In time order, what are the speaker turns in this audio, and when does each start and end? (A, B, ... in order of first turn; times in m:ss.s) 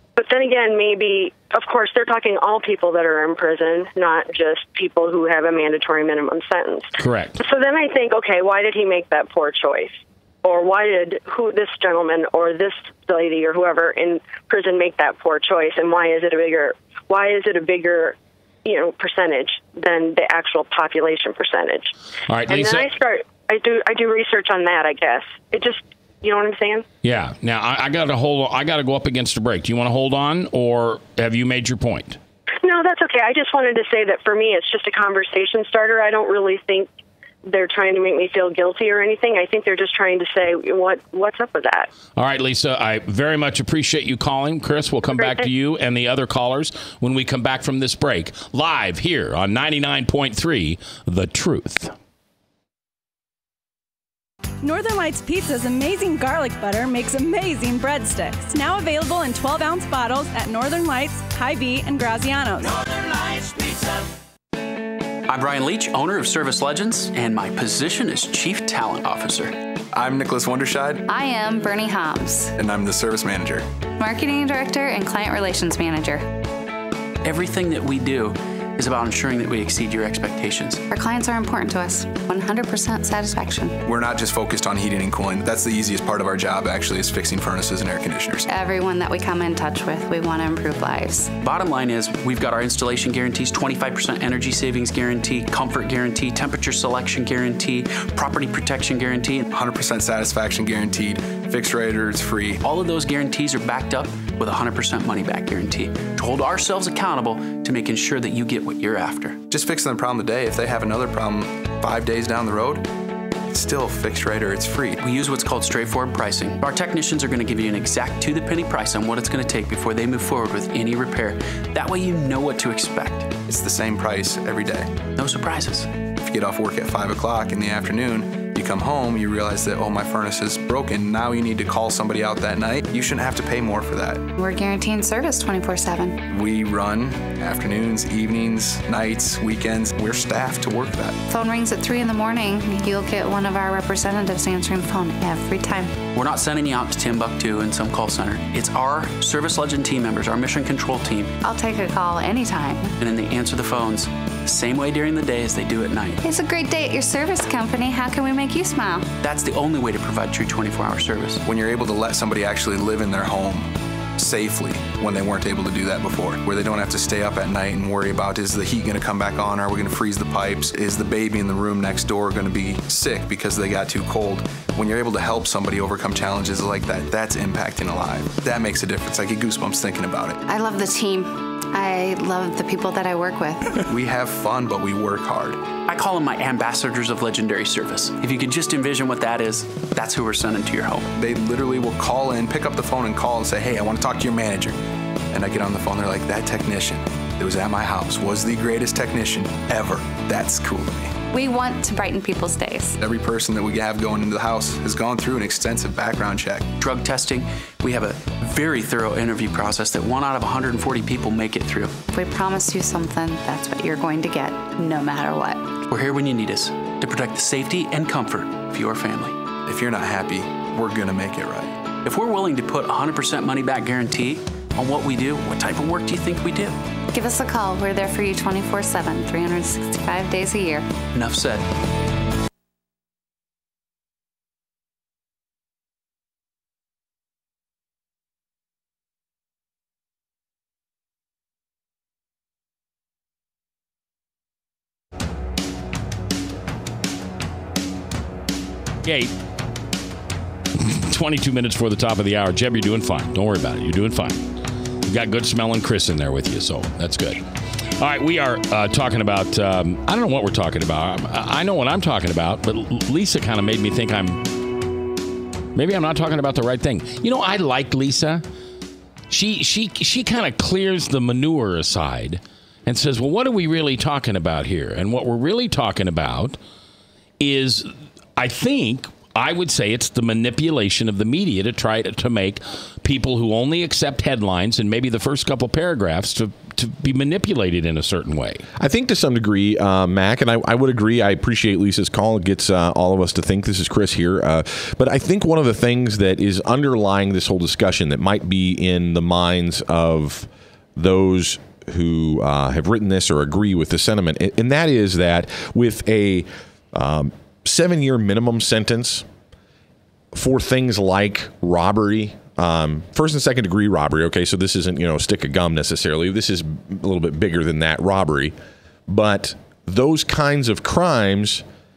0:00.2-0:21.9 A
0:07.0-0:07.4 B
0:22.3-0:22.9 B
0:22.5-0:26.8 A
0:27.0-0:32.2 B
0:32.6-0:36.9 A
0:37.4-0:41.9 A
0:42.2-0:51.9 B
0:45.2-0:45.4 A
0:54.6-1:02.8 C
1:05.3-1:09.6 D
1:09.9-1:11.0 E
1:11.1-1:12.5 F
1:12.6-1:13.7 E
1:14.0-1:16.3 F
1:17.2-1:20.8 D
1:20.9-1:23.8 F
1:23.8-1:28.5 E
1:28.5-1:31.3 F
1:31.4-1:39.5 D
1:39.5-1:42.6 E
1:42.6-1:49.4 D
1:49.5-1:52.9 E
1:53.5-1:55.0 E
1:55.0-2:03.4 D
2:03.4-2:05.0 E
2:05.1-2:05.9 D
2:06.2-2:14.2 E
2:14.4-2:16.2 F
2:16.3-2:21.2 E
2:21.3-2:26.0 F
2:26.1-2:31.4 D
2:31.4-2:33.0 F
2:33.0-2:36.2 D
2:36.2-2:39.1 F
2:39.2-2:41.4 D
2:41.4-3:00.4 E
3:00.5-3:03.8 F
3:03.8-3:05.7 E
3:05.8-3:11.1 D
3:11.1-3:14.8 E
3:15.3-3:21.2 E
3:21.3-3:23.0 F
3:23.0-3:26.7 E
3:26.8-3:32.1 D
3:32.1-3:35.8 F
3:35.9-3:39.4 D
3:39.6-3:41.8 E
3:42.0-3:46.8 D
3:47.1-3:50.9 F
3:51.1-3:51.7 D
4:09.0-4:09.3 B
4:10.8-4:14.5 B
4:15.1-4:17.4 B
4:18.0-4:24.6 B
4:25.8-4:28.4 B
4:29.3-4:36.6 B
4:37.4-4:48.6 B
4:48.8-5:09.2 G
5:10.3-5:18.5 G
5:19.1-5:21.6 G